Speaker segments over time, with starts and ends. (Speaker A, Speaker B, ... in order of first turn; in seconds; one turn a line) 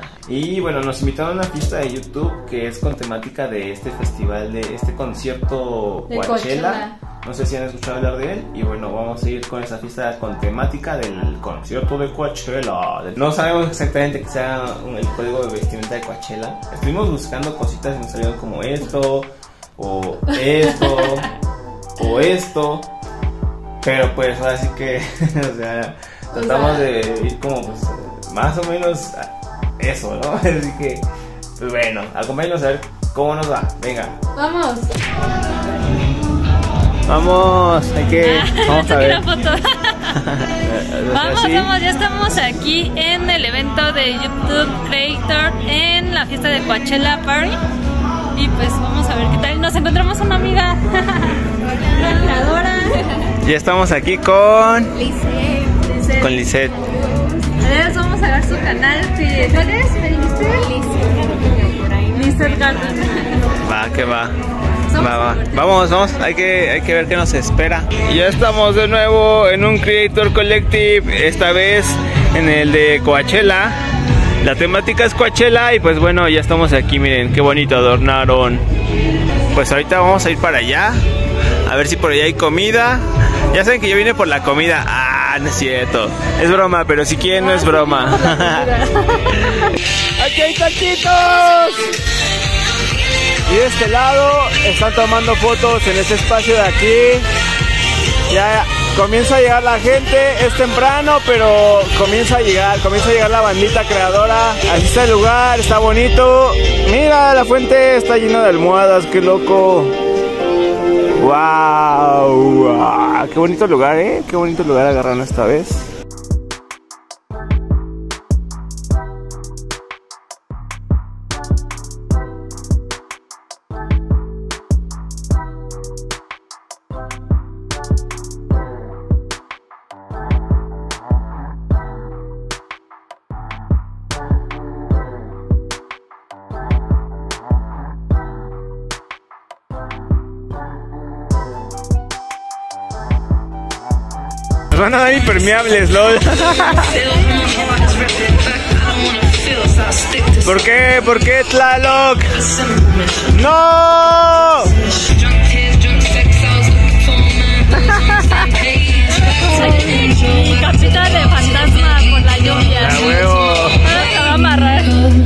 Speaker A: 0.2-21.3
Speaker B: 6.1-6.9
Speaker A: 22.0-22.9
Speaker A: 23.8-31.1
Speaker B: 26.4-26.9
Speaker A: 31.6-34.2
Speaker B: 34.4-34.9
Speaker A: 37.1-39.2
Speaker B: 38.2-40.1
Speaker A: 40.4-41.7
Speaker B: 41.1-47.6
Speaker B: 48.4-51.4
Speaker B: 51.9-53.1
Speaker A: 53.4-55.0
Speaker A: 56.0-56.8
Speaker B: 57.6-63.4
Speaker A: 63.6-64.4
Speaker B: 64.9-65.5
Speaker A: 64.9-73.8
Speaker A: 74.4-78.6
Speaker A: 79.5-81.0
Speaker A: 81.7-88.7
Speaker B: 87.4-89.6
Speaker A: 90.2-91.8
Speaker A: 93.5-97.3
Speaker A: 98.3-109.9
Speaker A: 111.2-115.9
Speaker A: 144.7-147.1
Speaker A: 150.4-152.3
Speaker A: 153.2-154.7
Speaker B: 159.3-163.3
Speaker A: 162.8-163.9
Speaker B: 163.8-165.1